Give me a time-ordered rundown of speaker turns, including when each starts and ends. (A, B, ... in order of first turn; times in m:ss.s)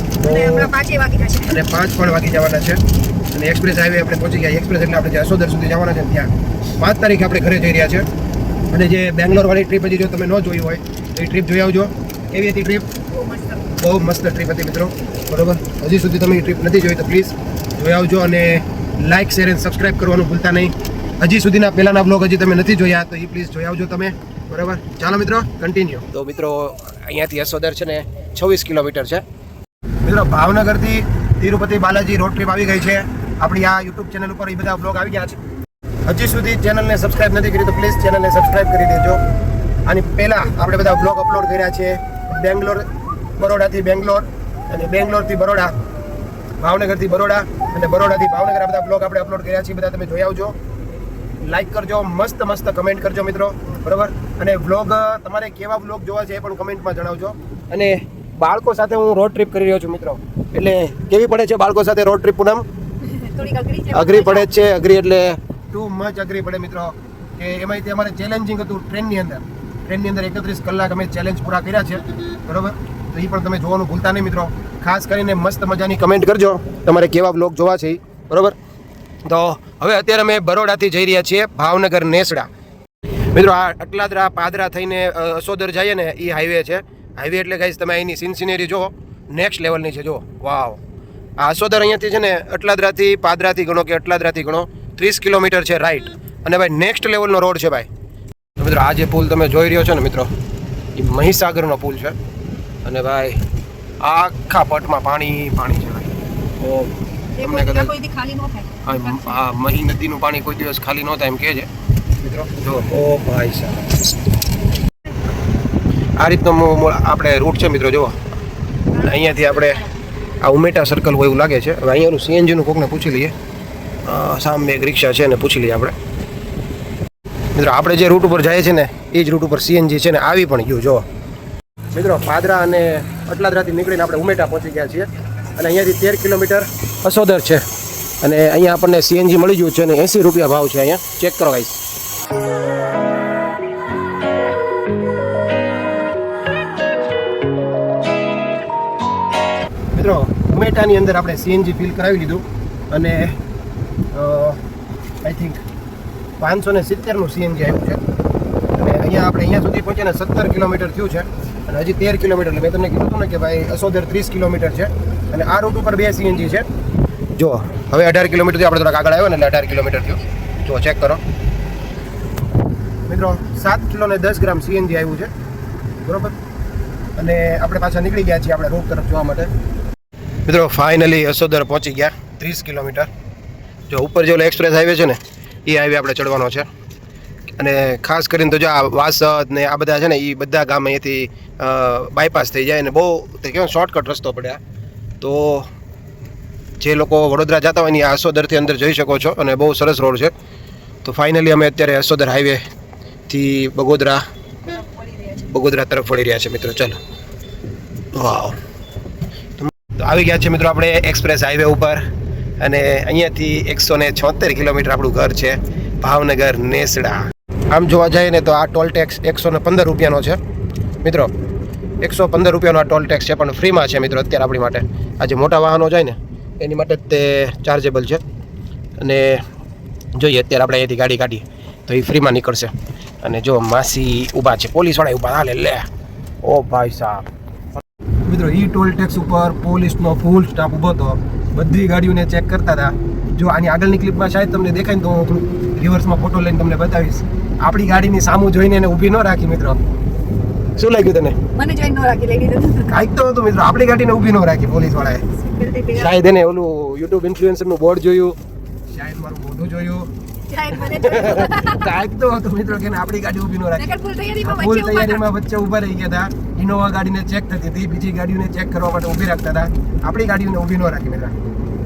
0:00.2-0:00.7 A
0:00.2-0:01.5 B
0:01.4-0:02.8 A
0:03.3-0:08.1 A
0:08.7-0:12.9 A
0:13.6-0:29.2 A
0:30.0-0:35.4 A
0:36.0-0:39.2 A
0:39.8-0:45.7 A
0:46.6-0:50.6 A
0:51.4-1:02.6 A
1:03.1-1:04.5 B
1:03.9-1:18.6 A
1:19.2-1:22.5 A
1:23.3-1:30.8 A
1:31.4-1:37.9 A
1:38.6-1:40.3 A
1:40.9-1:42.2 A
1:42.8-1:43.4 A
1:44.0-1:48.0 A
1:47.4-1:49.3 B
1:48.8-1:51.7 A
1:52.2-1:53.9 A
1:56.2-1:58.1 A
1:58.9-1:59.9 A
2:00.4-2:03.3 A
2:04.0-2:05.9 A
2:07.5-2:11.0 A
2:11.9-2:17.6 A
2:18.2-2:21.8 A
2:29.9-2:33.4 A
2:34.1-2:34.6 A
2:35.2-2:35.6 A
2:36.4-2:38.0 A
2:38.7-2:46.7 A
2:47.3-2:51.2 A
2:53.1-2:55.3 A
2:56.0-2:56.3 A
2:57.2-2:59.5 A
3:00.4-3:03.1 A
3:03.9-3:06.7 A
3:07.6-3:14.6 A
3:15.2-3:15.7 A
3:16.8-3:20.3 A
3:21.0-3:22.6 A
3:23.3-3:24.2 A
3:25.3-3:27.0 A
3:28.1-3:28.6 A
3:29.6-3:32.1 A
3:32.6-3:40.4 A
3:41.0-3:41.3 A
3:42.0-3:48.2 A
3:49.0-3:49.4 A
3:50.1-3:55.9 A
3:56.4-3:57.3 A
3:58.2-4:09.8 A
4:10.8-4:11.4 A
4:11.5-4:12.9 B
4:12.8-4:15.3 A
4:15.4-4:16.1 B
4:15.9-4:18.4 A
4:18.9-4:20.1 A
4:20.5-4:21.8 B
4:20.7-4:31.3 A
4:23.8-4:25.2 B